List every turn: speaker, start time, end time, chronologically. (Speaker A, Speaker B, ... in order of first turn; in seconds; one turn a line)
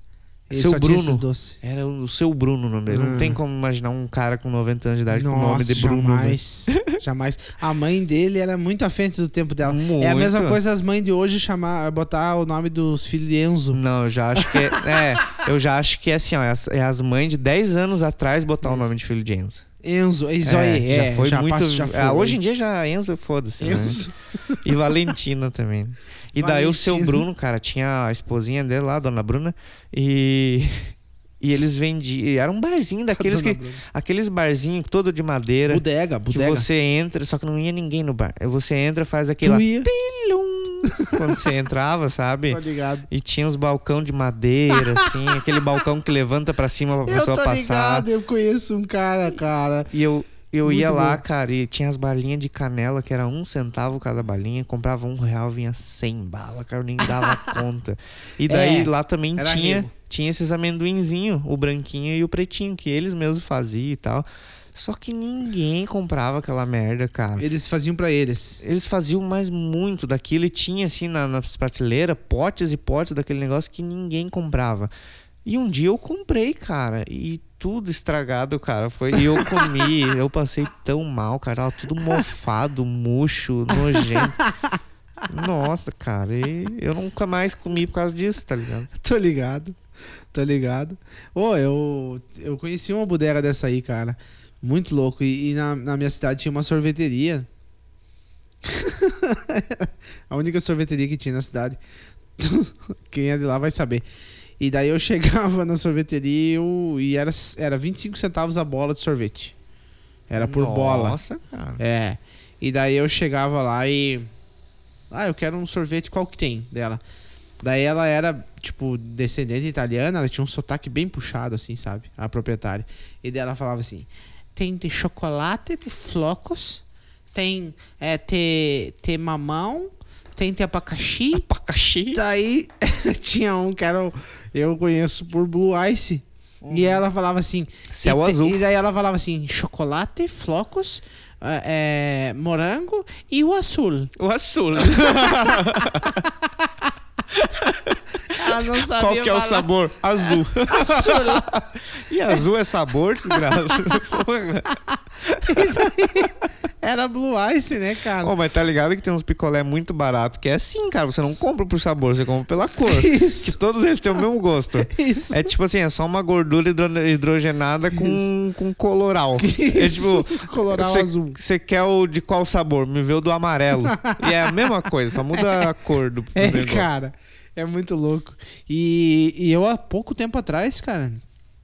Speaker A: 0.5-1.6
Speaker B: 0.5-7.0
Speaker A: 2.9-3.4
Speaker A: 5.1-13.8
Speaker B: 9.6-10.6
Speaker B: 13.7-19.6
Speaker A: 14.4-15.1
Speaker A: 18.6-18.9
Speaker A: 19.8-22.4
Speaker B: 20.4-24.1
Speaker A: 23.6-24.6
Speaker B: 24.6-48.1
Speaker A: 26.4-27.3
Speaker A: 33.1-33.8
Speaker A: 35.7-36.7
Speaker A: 39.4-39.9
Speaker A: 40.9-41.3
Speaker A: 42.5-43.1
Speaker A: 44.7-45.1
Speaker A: 47.1-49.9
Speaker B: 49.9-67.5
Speaker A: 50.6-51.2
Speaker A: 57.0-57.6
Speaker A: 58.5-59.9
Speaker A: 67.4-68.6
Speaker B: 68.6-74.9
Speaker B: 75.5-84.4
Speaker A: 79.1-79.9
Speaker A: 83.7-84.8
Speaker B: 85.3-88.9
Speaker A: 88.9-89.8
Speaker A: 90.3-97.5
Speaker A: 98.6-101.8
Speaker A: 102.4-104.0
Speaker A: 104.6-109.5
Speaker A: 110.3-111.2
Speaker B: 110.4-111.8
Speaker A: 111.8-114.3
Speaker A: 115.1-117.0
Speaker A: 117.6-126.8
Speaker A: 127.3-131.5
Speaker B: 131.3-132.2
Speaker A: 132.1-144.1
Speaker B: 136.6-137.0
Speaker B: 137.9-138.6
Speaker B: 144.2-146.3
Speaker A: 144.8-146.9
Speaker B: 147.3-155.9
Speaker A: 148.3-151.5
Speaker A: 153.3-154.0
Speaker A: 155.5-158.3
Speaker B: 158.2-176.9
Speaker A: 162.9-163.6
Speaker A: 164.8-165.5
Speaker A: 167.9-168.2
Speaker A: 169.4-171.4
Speaker A: 173.9-174.6
Speaker A: 175.3-175.7
Speaker A: 176.3-181.2